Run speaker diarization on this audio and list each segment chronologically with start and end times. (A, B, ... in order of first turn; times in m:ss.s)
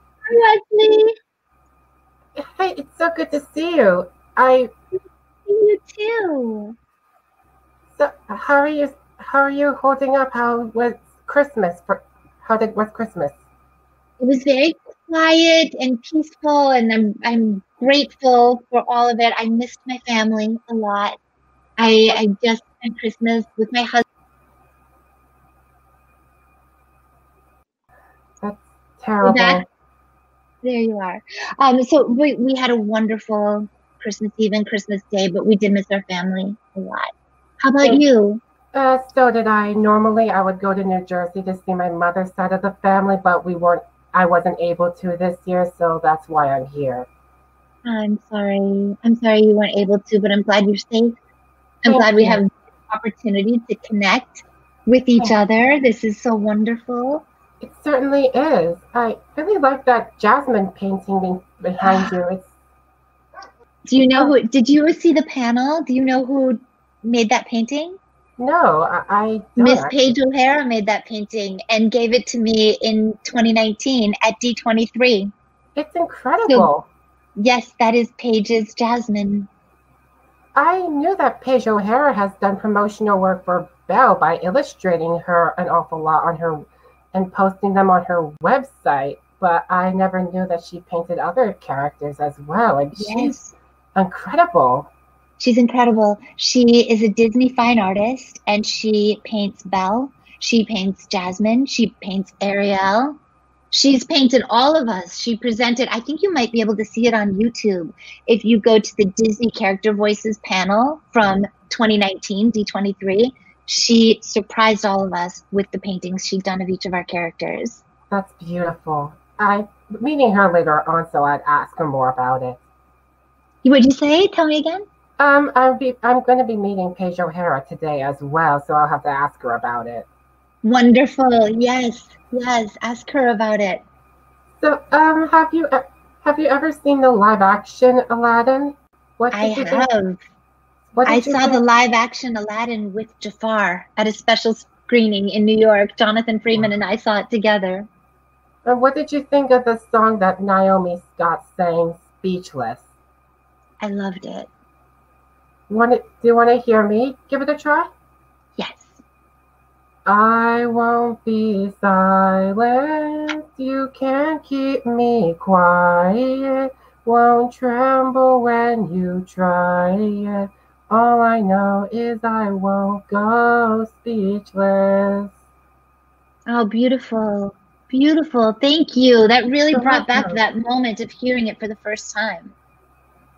0:00.3-0:01.1 A
0:02.4-0:04.7 B
0:05.5-0:06.8 A
0:07.9-0:13.4 B
0:14.2-0:21.2 A
0:21.8-0:24.0 A
0:28.4-0:29.6 B
0:29.2-0:29.6 A
0:30.6-0:38.4 A
0:38.7-0:47.1 B
0:47.8-0:51.2 A
0:51.8-0:52.4 B
0:51.8-0:57.2 A
0:57.6-1:02.5 B
1:01.8-1:02.1 A
1:03.9-1:08.0 A
1:08.4-1:10.0 B
1:09.6-1:15.3 A
1:15.8-1:16.9 B
1:17.4-1:19.5 A
1:20.5-1:33.4 B
1:32.9-1:33.5 A
1:33.9-1:34.9 B
1:35.4-1:43.2 A
1:43.7-1:57.8 A
1:58.1-2:02.6 B
2:03.6-2:04.8 A
2:05.2-2:10.1 B
2:10.6-2:13.8 A
2:14.6-2:19.9 B
2:19.3-2:20.2 A
2:20.9-2:21.6 B
2:21.0-2:27.9 A
2:28.6-2:32.8 B
2:33.8-2:34.5 A
2:35.7-2:37.9 B
2:38.6-2:39.0 A
2:40.0-2:55.3 B
2:56.5-3:02.5 A
2:59.7-3:00.4 B